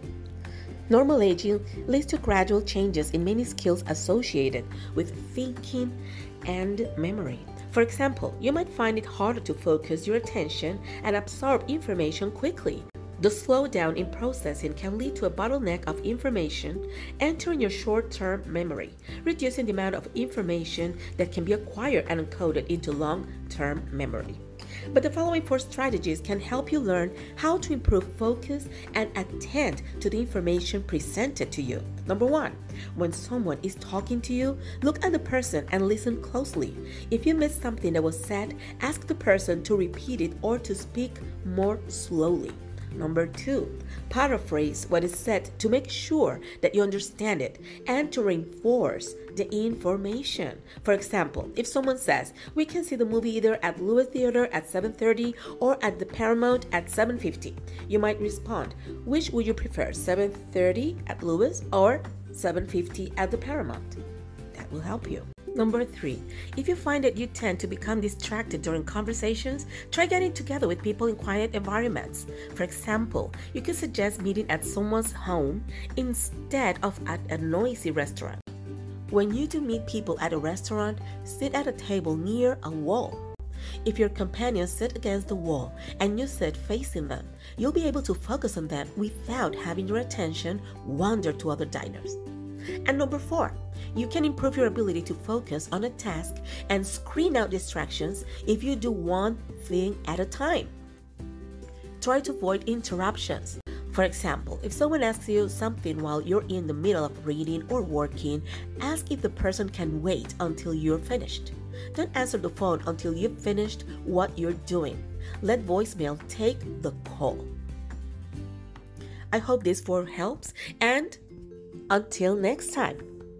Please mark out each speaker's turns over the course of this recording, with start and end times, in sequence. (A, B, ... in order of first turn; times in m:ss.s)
0:00.9-1:04.0 A
1:04.5-1:18.4 A
1:19.1-1:23.2 A
1:23.8-1:32.2 A
1:32.8-1:40.7 A
1:42.0-1:57.5 A
1:59.3-2:01.2 A
2:01.9-2:03.0 A